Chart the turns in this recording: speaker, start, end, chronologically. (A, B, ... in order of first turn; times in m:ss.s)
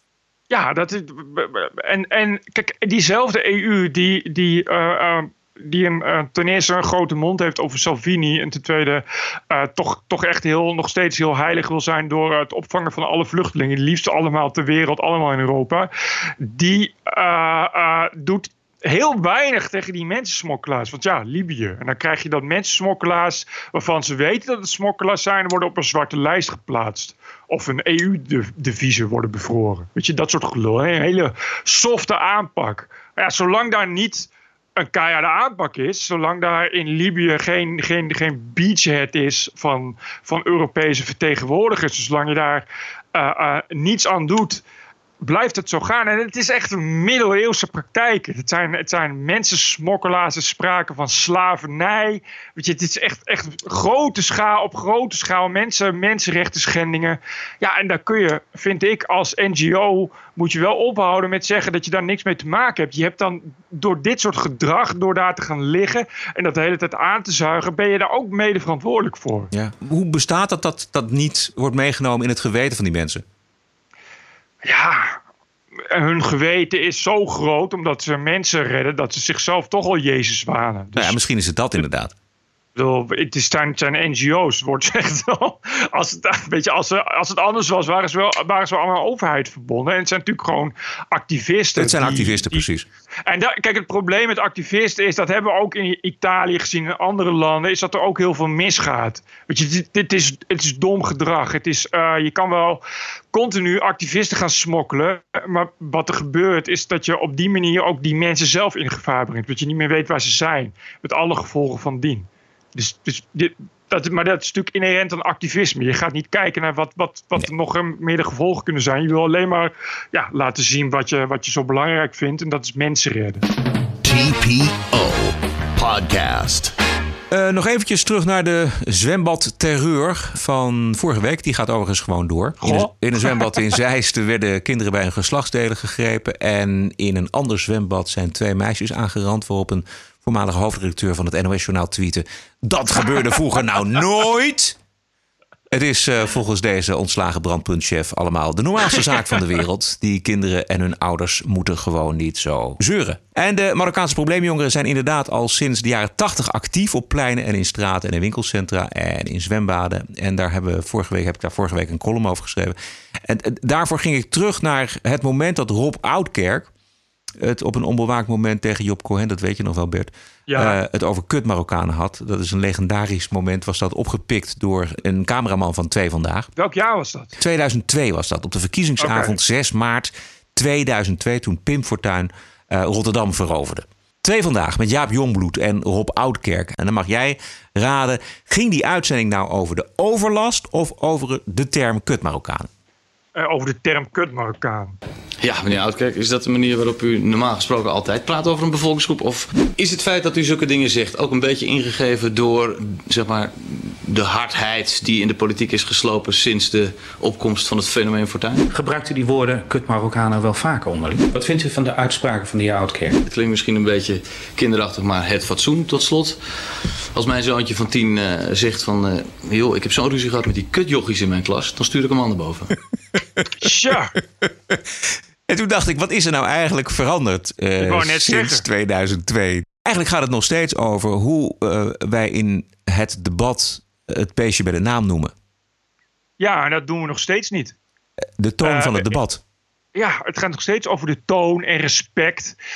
0:00.5-0:15.9 A
0:16.4-0:44.6 A
0:45.2-1:09.5 A
1:09.5-1:13.2 B
1:14.6-1:15.2 A
1:15.9-1:21.2 A
1:21.0-1:22.1 B
1:22.8-1:32.6 A
1:31.8-1:32.8 B
1:33.2-1:42.8 A
1:43.3-2:03.4 A
2:04.0-2:06.7 C
2:07.3-2:24.8 B
2:12.6-2:13.4 A
2:25.7-2:42.7 B
2:43.3-2:46.7 B
2:47.4-2:56.5 B
2:50.5-2:50.8 A
2:56.6-2:57.3 A
2:57.4-3:12.7 B
2:59.0-2:59.4 A
3:13.3-3:15.0 A
3:15.4-3:23.5 D
3:24.1-3:28.6 D
3:28.7-3:33.2 E
3:33.2-3:36.4 D
3:37.1-3:42.7 D
3:43.6-3:44.1 A
3:45.5-3:55.3 B
3:47.8-3:48.6 A
3:56.4-3:57.7 A
3:58.4-3:59.4 B
3:58.6-3:59.2 A
3:59.9-4:02.6 A